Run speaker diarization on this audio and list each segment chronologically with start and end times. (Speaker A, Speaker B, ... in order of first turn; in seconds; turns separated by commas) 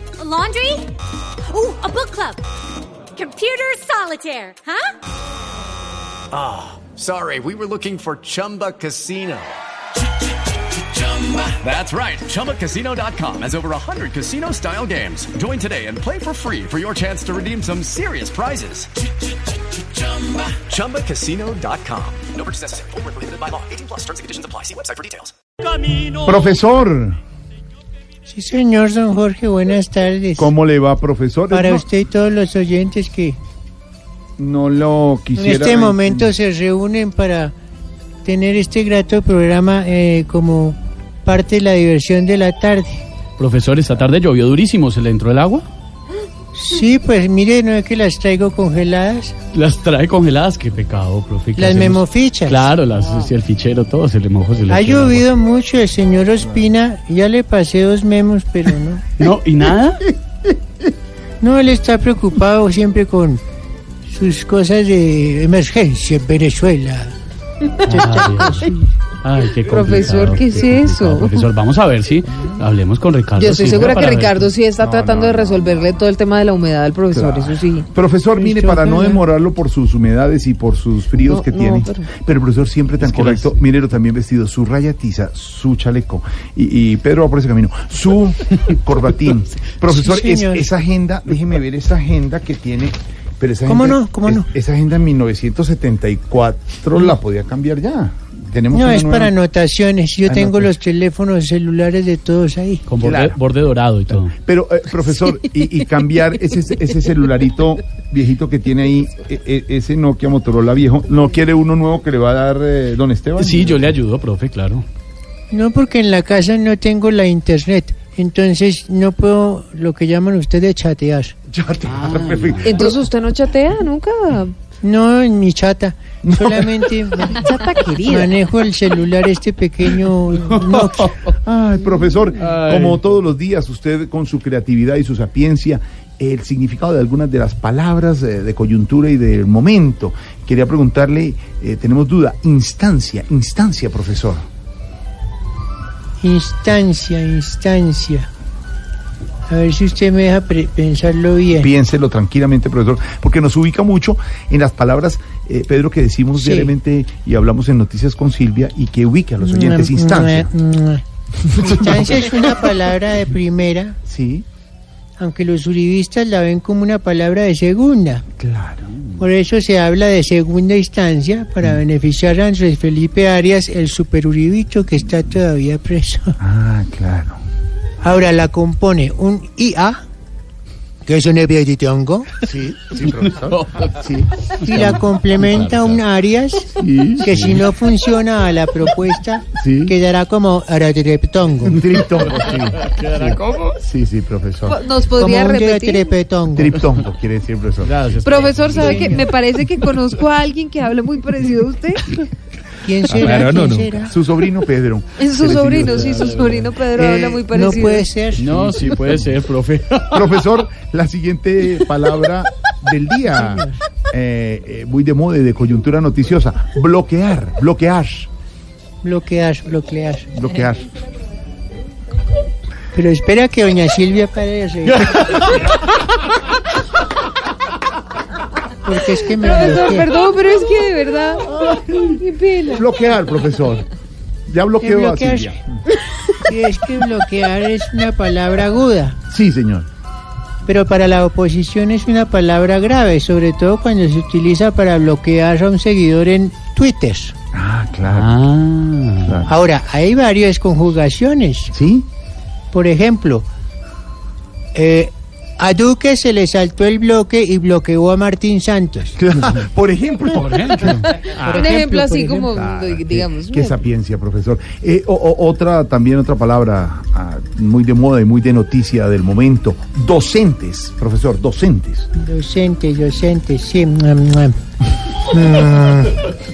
Speaker A: 0.2-0.9, Speaker A: 1.5-2.5, Speaker A: 3.1-5.0, Speaker B: 6.3-9.6, Speaker B: 10.8-18.9, Speaker B: 19.8-25.3, Speaker C: 26.0-27.2, Speaker D: 28.3-30.5, Speaker C: 30.4-31.9, Speaker D: 31.5-33.4, Speaker C: 34.4-36.4, Speaker D: 35.4-37.5, Speaker D: 38.2-43.1, Speaker E: 43.4-45.7, Speaker D: 46.5-49.4, Speaker E: 49.5-55.2, Speaker D: 51.5-52.7, Speaker D: 54.7-59.0, Speaker C: 56.4-56.7, Speaker E: 59.2-60.1, Speaker D: 61.4-63.4, Speaker D: 64.1-67.1, Speaker E: 67.9-74.5, Speaker D: 67.9-68.6, Speaker F: 69.7-71.5, Speaker F: 73.4-77.9, Speaker C: 74.8-75.9, Speaker C: 77.1-99.3, Speaker D: 78.4-79.3, Speaker F: 81.2-82.1, Speaker E: 83.0-83.6, Speaker D: 89.9-90.7, Speaker D: 93.7-94.5, Speaker D: 98.7-102.8, Speaker C: 100.3-100.7, Speaker E: 102.9-104.3, Speaker C: 103.0-103.4, Speaker C: 104.1-114.0, Speaker E: 113.4-114.9, Speaker D: 115.5-121.3, Speaker C: 121.5-123.0, Speaker E: 121.8-122.9, Speaker F: 122.7-124.5, Speaker D: 124.8-127.5, Speaker C: 126.3-126.6, Speaker F: 127.3-128.3, Speaker D: 128.0-131.2, Speaker C: 131.3-144.4, Speaker E: 132.4-133.1, Speaker D: 146.2-148.3, Speaker D: 149.5-151.7, Speaker C: 151.5-160.5, Speaker D: 156.3-156.7, Speaker D: 159.4-161.0, Speaker D: 161.6-164.0, Speaker C: 161.6-162.0, Speaker C: 164.1-164.5, Speaker D: 165.2-168.2, Speaker C: 168.4-169.0, Speaker D: 169.2-176.4, Speaker C: 176.4-177.4, Speaker D: 178.0-180.0, Speaker D: 181.1-182.4, Speaker C: 182.4-184.3, Speaker E: 183.1-184.0, Speaker D: 184.6-191.8, Speaker E: 184.6-186.0, Speaker C: 186.8-187.6, Speaker E: 187.0-187.5, Speaker C: 189.6-189.9, Speaker C: 191.7-194.8, Speaker E: 192.1-193.8, Speaker F: 194.7-196.1, Speaker D: 195.2-196.8, Speaker C: 196.6-198.2, Speaker E: 197.8-199.2, Speaker F: 198.2-202.2, Speaker D: 198.7-199.3, Speaker D: 202.8-204.2, Speaker C: 203.1-206.3, Speaker E: 203.1-203.8, Speaker F: 205.2-208.1, Speaker E: 205.5-206.7, Speaker D: 207.0-208.6, Speaker E: 208.4-210.2, Speaker C: 208.6-209.3, Speaker C: 210.1-218.3, Speaker D: 213.3-213.8, Speaker D: 219.0-220.3, Speaker C: 220.3-220.9, Speaker D: 222.9-225.4, Speaker D: 228.8-230.1, Speaker F: 229.3-232.8, Speaker C: 231.6-232.0, Speaker C: 232.7-233.9, Speaker C: 234.5-235.6, Speaker D: 234.8-235.6, Speaker D: 236.4-239.2, Speaker C: 239.3-239.9, Speaker D: 240.7-247.3, Speaker C: 247.5-248.4, Speaker E: 248.1-249.5, Speaker C: 249.2-249.5, Speaker D: 249.5-251.7, Speaker C: 251.7-252.1, Speaker D: 252.7-253.5, Speaker D: 254.7-259.2, Speaker C: 259.2-261.7, Speaker E: 260.3-261.5, Speaker D: 261.5-262.5, Speaker F: 261.5-263.8, Speaker C: 262.5-272.1, Speaker D: 272.1-274.6, Speaker D: 275.3-276.2